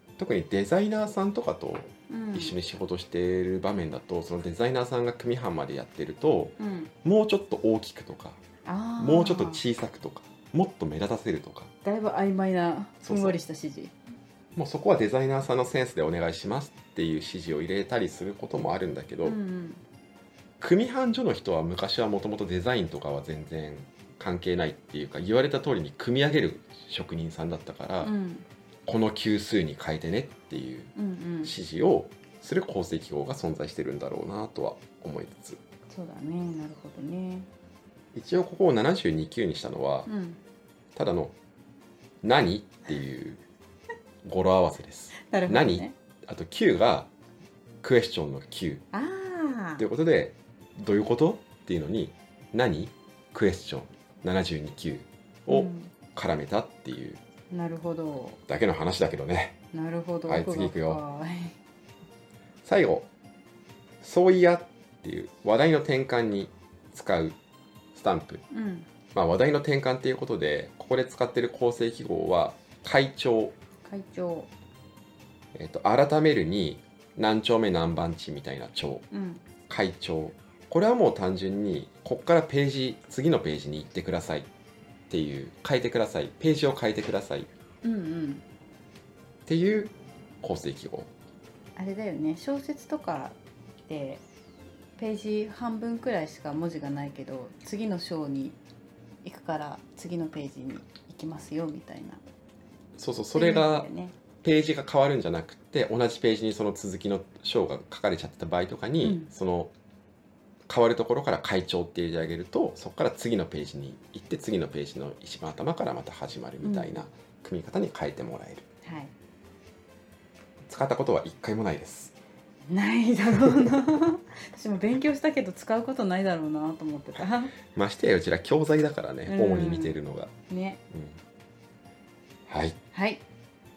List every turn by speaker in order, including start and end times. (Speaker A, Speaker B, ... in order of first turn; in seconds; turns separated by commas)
Speaker A: 0.2-8.4, Speaker B: 2.1-2.5, Speaker B: 6.6-6.9, Speaker B: 8.6-9.6, Speaker A: 9.0-11.7, Speaker B: 11.8-13.9, Speaker A: 13.0-13.3, Speaker A: 14.6-19.4, Speaker B: 19.2-19.8, Speaker A: 20.6-28.1, Speaker B: 28.0-28.4, Speaker A: 28.9-35.6, Speaker B: 30.9-31.5, Speaker B: 35.9-37.5, Speaker A: 38.1-40.1, Speaker B: 40.0-40.4, Speaker A: 40.9-41.3, Speaker A: 42.2-43.4, Speaker A: 44.2-47.1, Speaker B: 45.2-45.9, Speaker A: 47.8-48.8, Speaker B: 48.9-49.8, Speaker A: 49.8-57.2, Speaker B: 55.5-55.9, Speaker B: 57.5-58.4, Speaker A: 58.5-59.6, Speaker B: 59.7-61.6, Speaker A: 60.3-61.0, Speaker A: 62.6-63.1, Speaker A: 64.0-67.4, Speaker A: 67.9-68.4, Speaker B: 68.5-68.9, Speaker A: 69.1-73.5, Speaker B: 73.8-74.5, Speaker A: 75.5-79.1, Speaker B: 79.1-79.4, Speaker A: 79.7-84.5, Speaker A: 85.1-87.5, Speaker B: 87.8-88.4, Speaker A: 89.5-91.1, Speaker B: 91.8-94.2, Speaker B: 95.0-98.6, Speaker B: 99.2-102.2, Speaker A: 103.0-103.9, Speaker B: 103.3-104.1, Speaker A: 104.4-109.7, Speaker B: 109.0-109.3, Speaker A: 110.7-118.7, Speaker B: 116.6-117.0, Speaker B: 118.8-119.1, Speaker A: 120.7-122.2, Speaker B: 122.7-127.5, Speaker A: 123.4-123.7, Speaker A: 127.2-130.3, Speaker B: 129.3-130.0, Speaker B: 130.5-130.8, Speaker A: 130.9-131.2, Speaker A: 132.5-132.8, Speaker B: 132.9-133.2